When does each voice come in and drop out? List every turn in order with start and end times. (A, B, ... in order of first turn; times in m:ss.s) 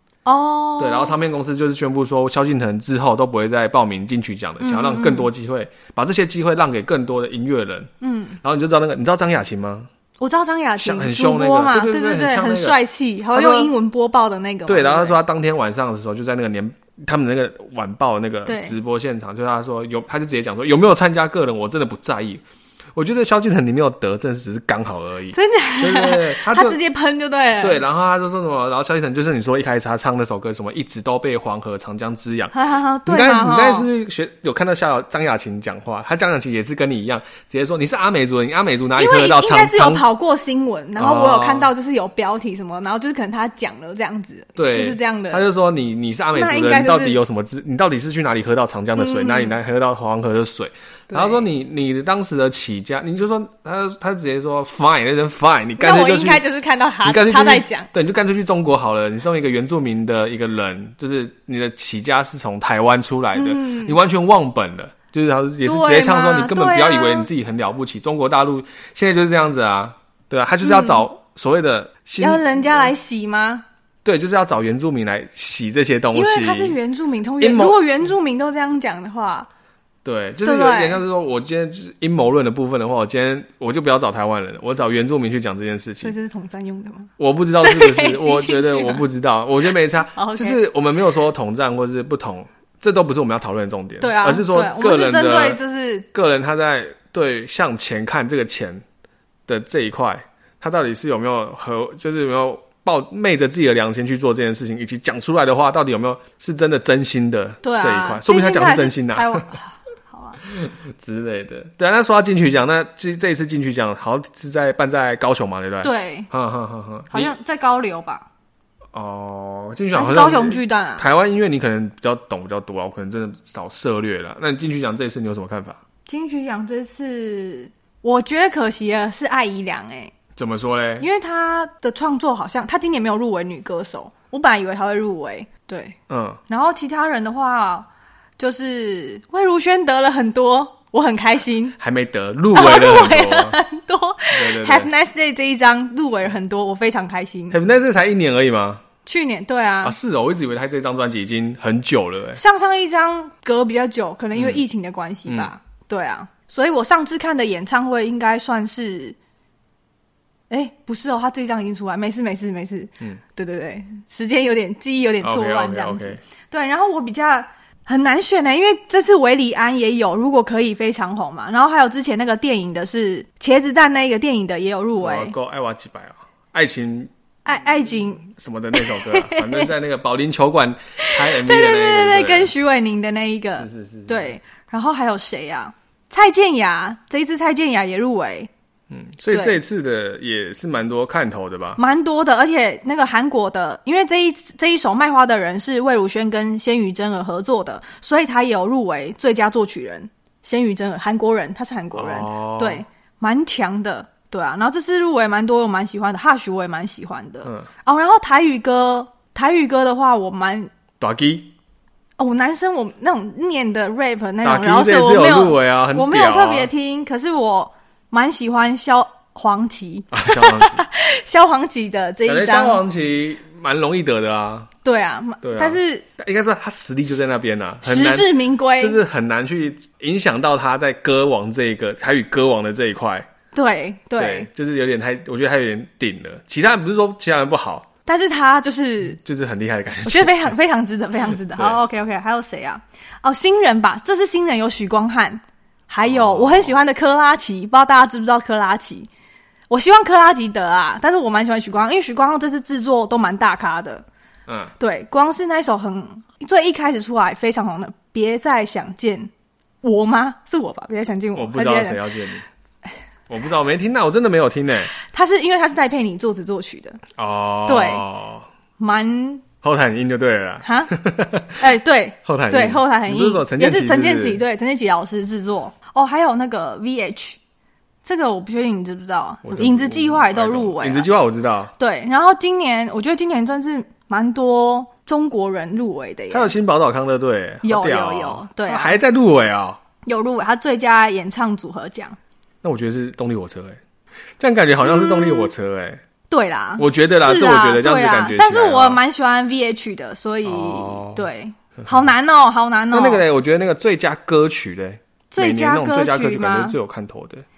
0:00.2-0:01.2 A
0:00.8-0:07.9 B
0:04.6-0:05.3 A
0:08.0-0:08.4 A
0:08.4-0:09.9 B
0:10.2-0:15.2 A
0:10.8-0:12.8 B
0:13.3-0:13.7 B
0:14.7-0:22.4 B
0:18.5-0:18.8 A
0:23.0-0:26.8 B
0:25.3-0:27.8 A
0:27.6-0:32.5 B
0:32.5-0:33.9 A
0:33.1-0:40.1 B
0:39.0-0:45.5 A
0:41.0-0:41.7 B
0:44.6-0:56.4 B
0:46.3-0:47.2 A
0:49.0-0:49.6 A
0:51.1-0:51.5 A
0:55.8-0:57.9 A
0:57.0-1:12.9 B
1:03.3-1:04.0 A
1:05.6-1:07.3 A
1:10.6-1:11.0 A
1:12.2-1:13.6 A
1:14.0-1:16.8 B
1:16.1-1:19.5 A
1:17.4-1:17.8 B
1:20.0-1:26.1 B
1:20.4-1:21.0 A
1:26.0-1:27.1 A
1:27.2-1:35.6 B
1:27.6-1:29.1 A
1:30.1-1:30.6 A
1:34.0-1:36.1 A
1:36.1-1:38.8 B
1:39.5-1:49.4 B
1:47.6-1:50.4 A
1:50.4-1:57.3 B
1:55.8-1:56.3 A
1:57.1-1:58.3 A
1:58.9-2:05.8 B
1:59.9-2:01.1 A
2:06.1-2:10.1 A
2:10.4-2:11.1 B
2:11.0-2:16.0 A
2:16.1-2:16.4 B
2:16.5-2:17.9 A
2:18.4-2:21.8 A
2:21.8-2:23.6 B
2:22.5-2:27.6 A
2:24.3-2:24.9 B
2:27.5-2:28.8 B
2:29.1-2:30.0 A
2:29.8-2:32.4 B
2:32.4-2:39.2 A
2:34.4-2:34.6 B
2:40.5-2:55.4 A
2:45.2-2:46.2 B
2:55.0-2:57.1 B
2:57.4-2:59.7 A
2:57.9-3:02.5 B
3:01.0-3:08.5 A
3:03.6-3:04.3 B
3:08.9-3:11.8 B
3:09.3-3:09.6 A
3:11.8-3:30.7 A
3:22.0-3:22.8 B
3:31.0-3:31.5 B
3:32.2-3:42.8 A
3:34.4-3:36.7 B
3:40.1-3:40.8 B
3:42.3-3:44.7 B
3:44.8-3:46.0 A
3:45.4-3:53.3 B
3:47.8-3:49.0 A
3:53.5-3:54.5 A
3:54.2-3:57.9 B
3:58.1-3:59.2 A
3:59.2-4:00.5 B
4:00.0-4:09.1 A
4:01.5-4:01.8 B
4:06.0-4:06.7 B
4:09.7-4:14.0 A
4:14.5-4:14.7 B
4:14.8-4:19.3 A
4:19.8-4:22.0 A
4:21.4-4:22.4 B
4:23.3-4:24.9 B
4:25.0-4:27.0 A
4:27.2-4:28.5 B
4:27.7-4:28.0 A
4:28.8-4:29.4 A
4:29.6-4:31.6 B
4:30.6-4:30.9 A
4:31.6-4:37.4 A
4:32.2-4:34.4 B
4:38.0-4:41.1 A
4:39.4-4:41.7 B
4:41.8-4:46.5 A
4:46.3-4:49.8 B
4:47.6-4:49.0 A
4:50.1-4:52.2 A
4:52.6-4:53.8 B
4:54.4-4:56.0 B
4:54.8-4:55.5 A
4:56.3-5:03.2 A
4:56.8-4:59.0 B
5:00.4-5:01.2 B
5:02.9-5:07.4 B
5:05.3-5:06.8 A